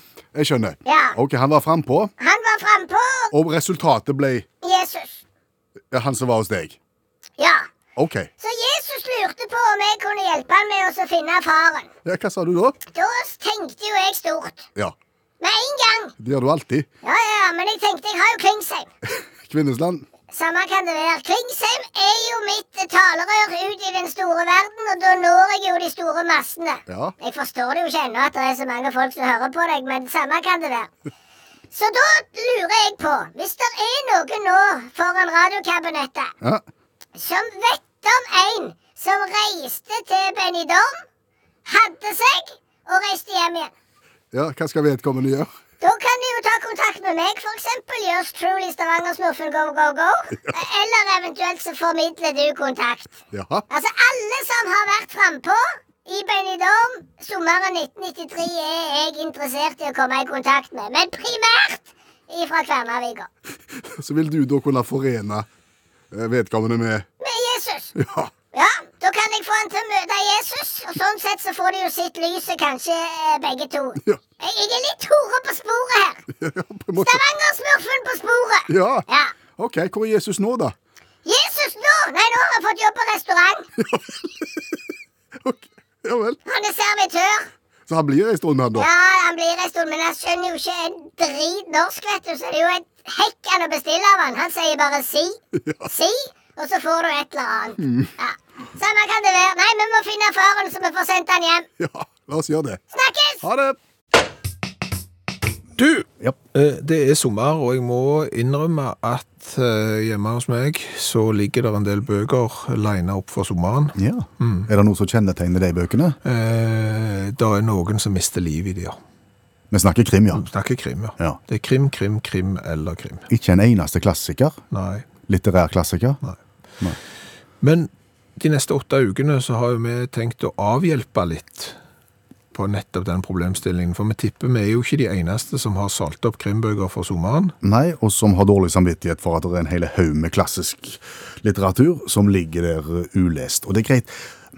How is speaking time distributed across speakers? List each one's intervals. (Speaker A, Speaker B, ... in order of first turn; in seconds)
Speaker A: 0.3-2.1, 3.3-4.5, 5.9-6.8, 8.0-8.3, 12.0-12.8, 16.2-16.9, 19.1-20.1, 26.9-27.1, 44.3-45.5, 53.3-53.6, 63.8-65.5, 66.1-67.0, 68.0-68.3, 76.3-77.2, 78.7-79.0, 79.6-80.7, 83.8-84.8, 85.4-86.4, 87.9-88.9, 95.5-95.9, 97.8-98.1, 101.8-102.8, 103.4-103.8, 114.0-116.2, 119.7-120.5, 123.3-124.6, 125.3-126.2, 137.6-144.3
Speaker B: 0.8-1.1, 2.2-3.3, 4.6-5.2, 7.4-7.7, 8.4-11.9, 12.9-14.7, 15.4-16.1, 17.0-18.9, 20.3-30.9, 31.7-36.3, 37.1-41.0, 41.6-43.7, 45.8-63.3, 67.2-67.9, 68.5-76.2, 77.0-79.3, 81.2-83.7, 86.5-87.5, 88.8-101.7, 102.9-103.4
Speaker C: 105.8-114.7, 116.2-119.0, 120.3-123.3, 124.7-125.0, 127.6-131.7, 132.5-137.5